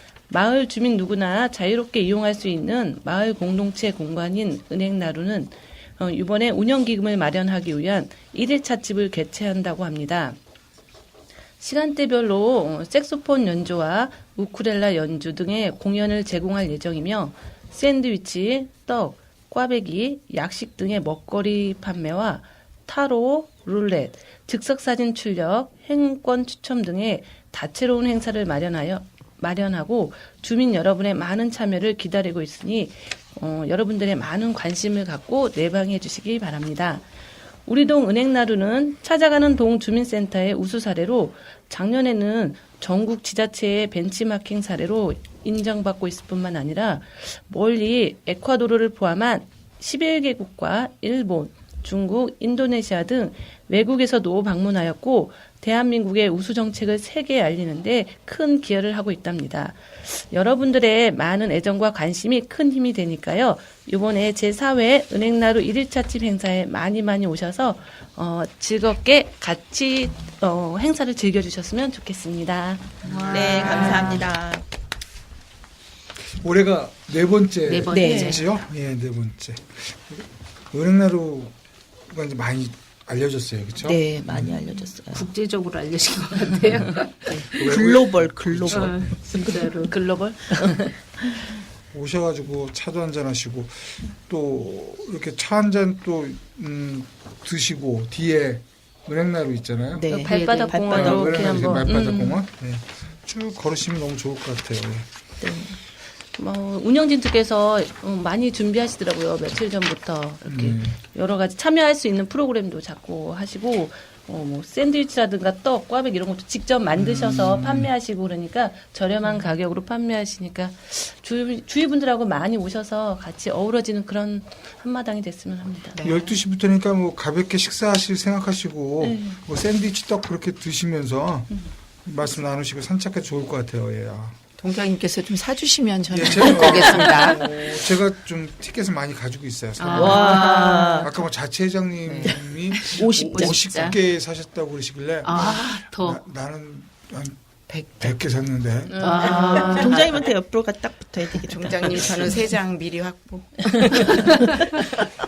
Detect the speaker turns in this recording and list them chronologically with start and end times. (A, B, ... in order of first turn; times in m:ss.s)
0:00.3-0:10.4 A
0:11.6-0:37.0 A
0:37.6-1:13.2 A
1:13.0-1:14.2 B
1:13.3-1:14.6 C
1:13.3-1:13.9 D
1:16.4-1:21.5 B
1:17.7-1:18.4 D
1:17.9-1:18.4 C
1:22.1-1:24.5 B
1:23.8-1:25.3 C
1:25.1-1:27.8 D
1:27.5-1:29.3 B
1:27.6-1:29.9 C
1:28.6-1:29.9 D
1:29.8-1:30.9 A
1:31.9-1:40.1 B
1:39.9-1:41.8 C
1:40.1-1:42.4 A
1:40.8-1:45.1 B
1:45.4-1:45.8 C
1:46.4-2:06.1 A
1:50.4-1:51.0 B
1:56.9-1:57.9 B
2:06.0-2:14.4 B
2:09.0-2:09.4 A
2:14.6-2:17.6 E
2:16.1-2:27.4 B
2:19.8-2:21.0 D
2:19.9-2:21.1 C
2:22.0-2:22.3 E
2:22.7-2:24.0 D
2:22.9-2:23.9 C
2:25.2-2:26.2 D
2:27.7-2:28.2 E
2:27.9-2:29.4 B
2:28.9-2:29.8 A
2:29.0-2:30.0 D
2:29.2-2:30.1 E
2:29.3-2:32.3 C
2:31.4-2:35.0 E